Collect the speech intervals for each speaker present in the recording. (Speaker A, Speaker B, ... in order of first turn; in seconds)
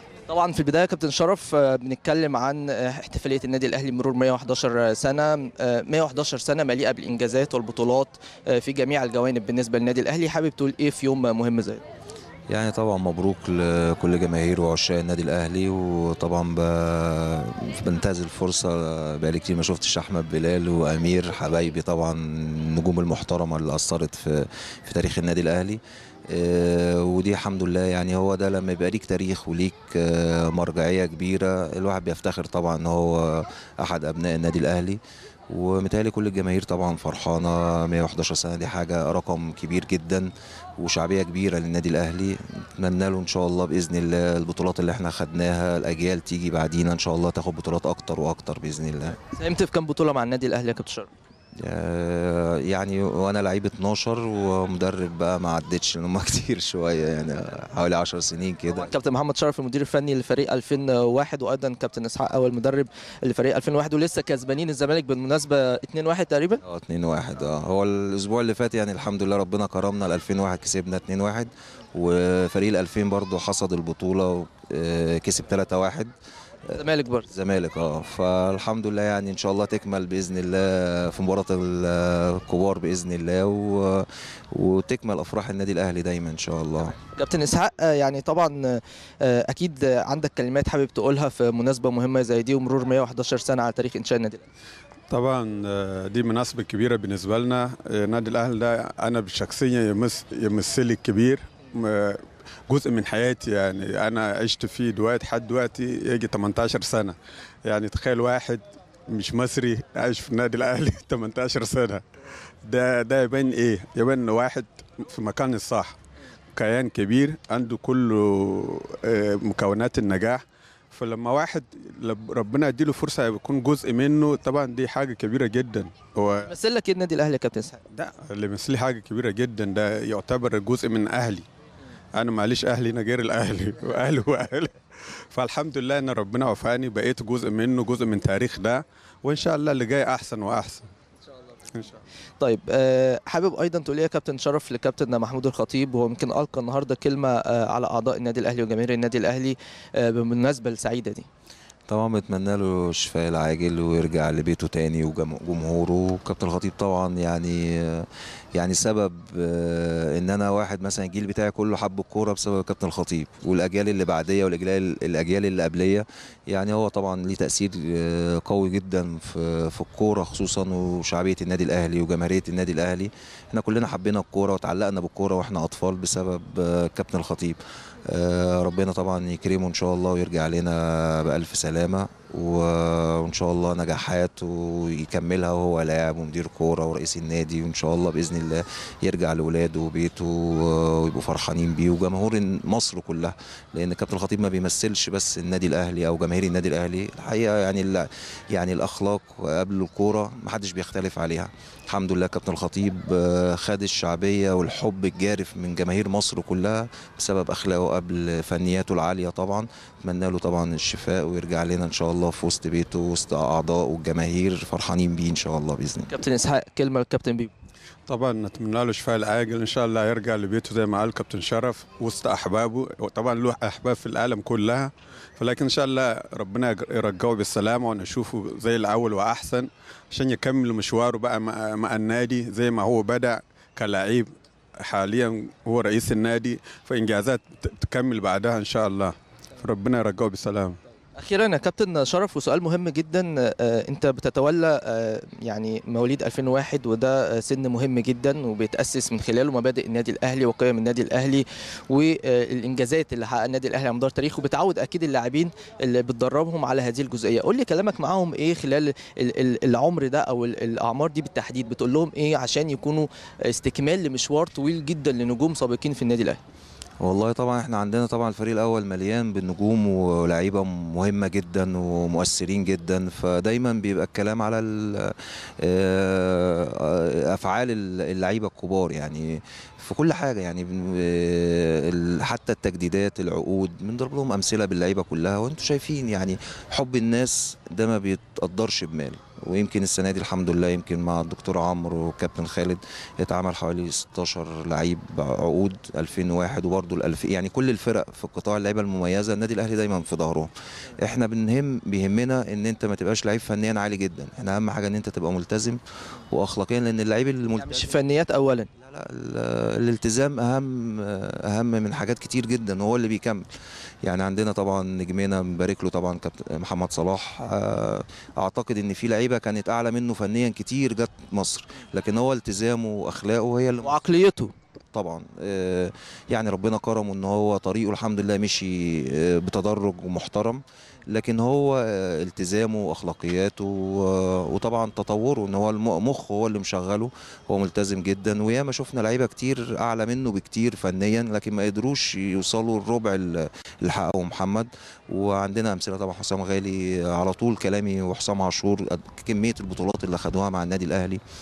Speaker A: 0.3-11.8, 49.3-51.1, 58.8-66.6, 76.8-77.3, 87.1-94.4, 126.5-127.8, 142.4-151.3, 216.1-217.5, 241.2-266.4, 307.6-308.7, 323.8-324.5
Speaker B: 12.5-35.0, 35.5-49.2, 51.6-58.9, 66.6-76.1, 77.3-87.0, 151.9-216.1, 267.0-300.5, 301.0-307.9, 308.8-313.4, 314.1-323.9, 324.9-351.2
Speaker C: 95.1-112.0, 112.7-116.0, 116.6-120.4, 120.9-126.5, 127.9-131.5, 132.2-140.9, 218.1-240.8